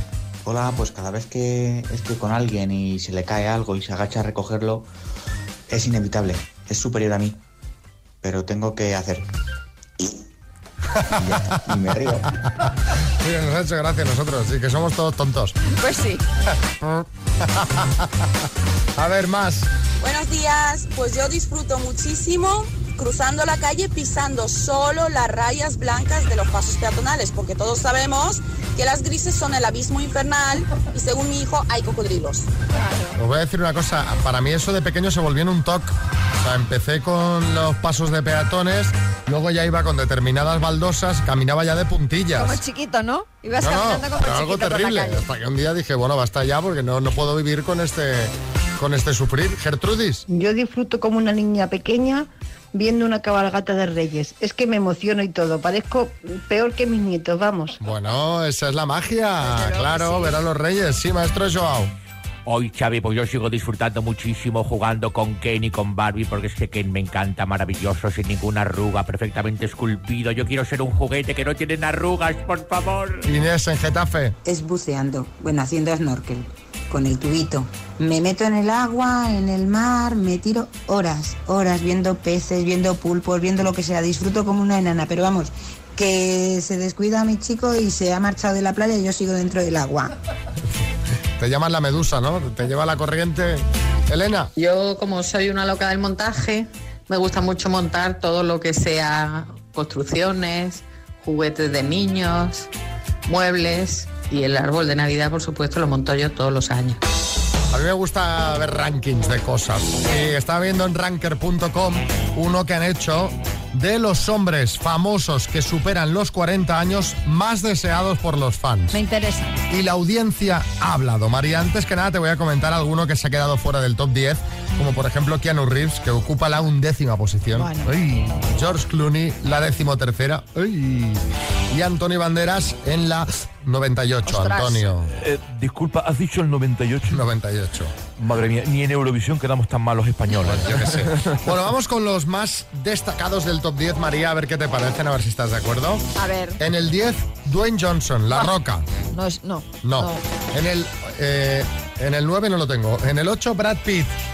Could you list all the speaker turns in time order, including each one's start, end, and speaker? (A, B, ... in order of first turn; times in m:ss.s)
0:00.4-0:04.9 A
0:05.7-0:07.4 A
0:08.2-0:09.2 A
0:10.9-0:11.4 B
0:11.2-0:12.3 A
0:13.2-0:15.6 B
0:15.7-0:16.2 C
0:16.8-0:18.1 B
0:19.0-0:19.7 B
0:20.0-0:32.5 D
0:32.7-0:33.2 C
0:33.2-0:42.6 B
0:42.4-0:45.2 C
0:43.6-0:50.2 B
0:50.3-0:57.8 E
0:57.8-1:01.9 B
0:59.4-1:00.4 C
1:02.5-1:13.2 F
1:13.2-1:14.4 B
1:14.4-1:30.1 G
1:31.4-1:34.5 B
1:34.6-1:42.7 H
1:43.2-1:47.0 H
1:47.7-1:59.0 B
1:58.9-1:59.6 C
1:59.7-2:15.1 B
2:07.6-2:07.9 C
2:14.3-2:14.8 C
2:15.2-2:17.2 I
2:17.1-2:17.9 B
2:18.2-2:21.4 I
2:20.4-2:28.9 B
2:26.2-2:26.6 C
2:29.1-2:30.2 C
2:29.8-2:34.2 B